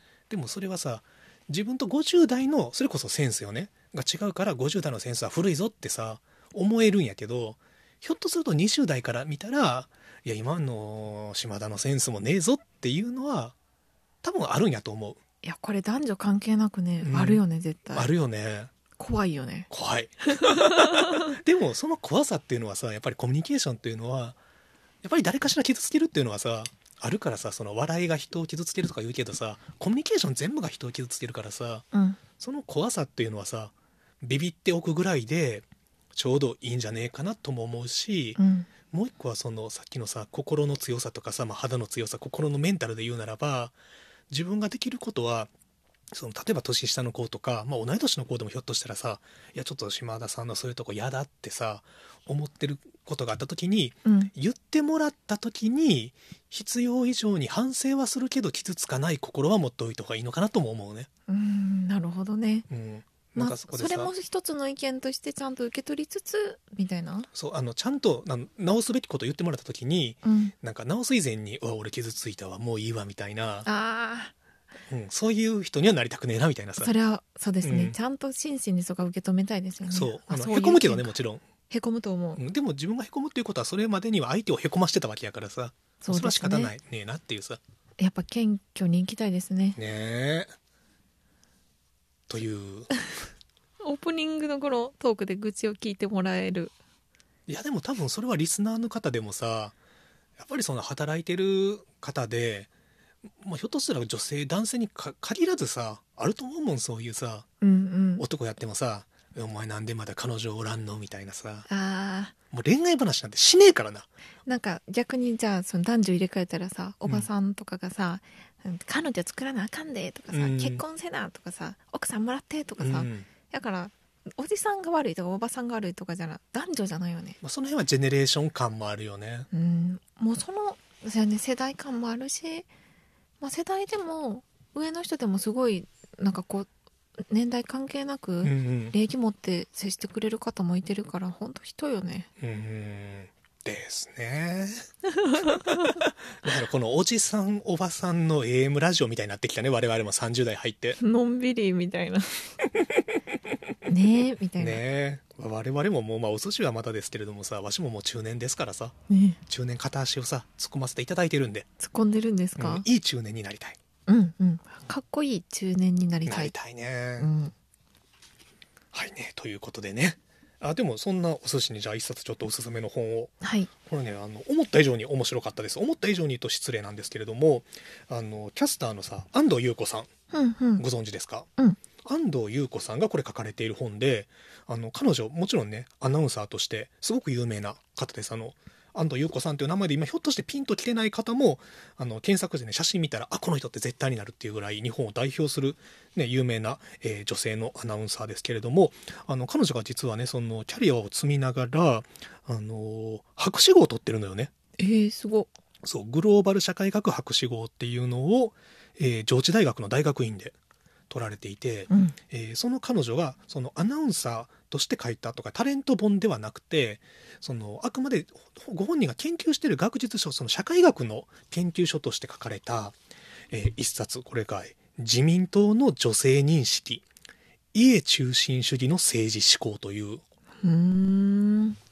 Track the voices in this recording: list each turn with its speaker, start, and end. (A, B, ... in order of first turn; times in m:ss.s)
0:00.3-0:13.6 A
0:14.2-0:15.2 A
0:15.4-0:18.1 B
0:17.0-0:17.4 A
0:17.9-0:18.7 A
0:19.0-0:19.7 B
0:19.7-0:24.4 A
0:20.3-0:21.2 B
0:25.0-0:31.9 A
0:31.9-0:32.2 B
0:32.4-0:43.8 A
0:38.4-0:38.7 B
0:44.3-0:45.5 A
0:46.1-1:01.1 A
0:54.0-0:54.3 B
1:01.3-1:02.7 B
1:02.7-1:04.1 A
1:03.4-1:07.3 B
1:07.3-1:13.7 A
1:10.2-1:10.5 B
1:13.7-1:14.3 B
1:14.9-1:16.9 A
1:16.8-1:21.2 B
1:17.6-1:18.0 A
1:19.9-1:21.4 A
1:21.7-1:22.4 B
1:22.4-1:27.6 A
1:26.0-1:26.7 B
1:28.0-1:29.8 B
1:29.8-1:30.5 A
1:32.3-1:33.0 A
1:33.8-1:36.7 B
1:37.5-1:39.8 A
1:40.4-1:42.7 A
1:43.4-1:47.5 A
1:47.6-1:48.2 B
1:48.2-1:51.7 A
1:51.7-1:52.3 B
1:52.5-1:54.1 A
1:54.5-2:07.4 B
2:00.3-2:00.8 A
2:02.8-2:03.3 A
2:07.4-2:09.5 A
2:09.5-2:12.7 B
2:13.4-2:16.7 B
2:17.2-2:22.3 B
2:18.4-2:19.0 A
2:22.4-2:24.9 A
2:25.2-2:26.0 B
2:25.5-2:31.0 A
2:31.0-2:32.5 B
2:33.9-2:34.8 B
2:34.6-2:39.0 A
2:39.1-2:39.4 B
2:39.5-2:41.7 A
2:41.8-2:42.9 B
2:42.6-2:43.8 A
2:44.1-2:46.5 B
2:46.3-2:47.3 A
2:47.2-2:47.5 B
2:48.9-3:00.1 A
2:53.4-2:53.7 B
3:00.3-3:00.8 B
3:00.8-3:01.5 A
3:02.0-3:24.5 A
3:24.8-3:25.5 B
3:25.8-3:30.6 A
3:31.1-3:43.0 A
3:31.9-3:32.2 B
3:43.5-3:47.0 A
3:47.7-3:50.2 A
3:50.6-3:51.8 B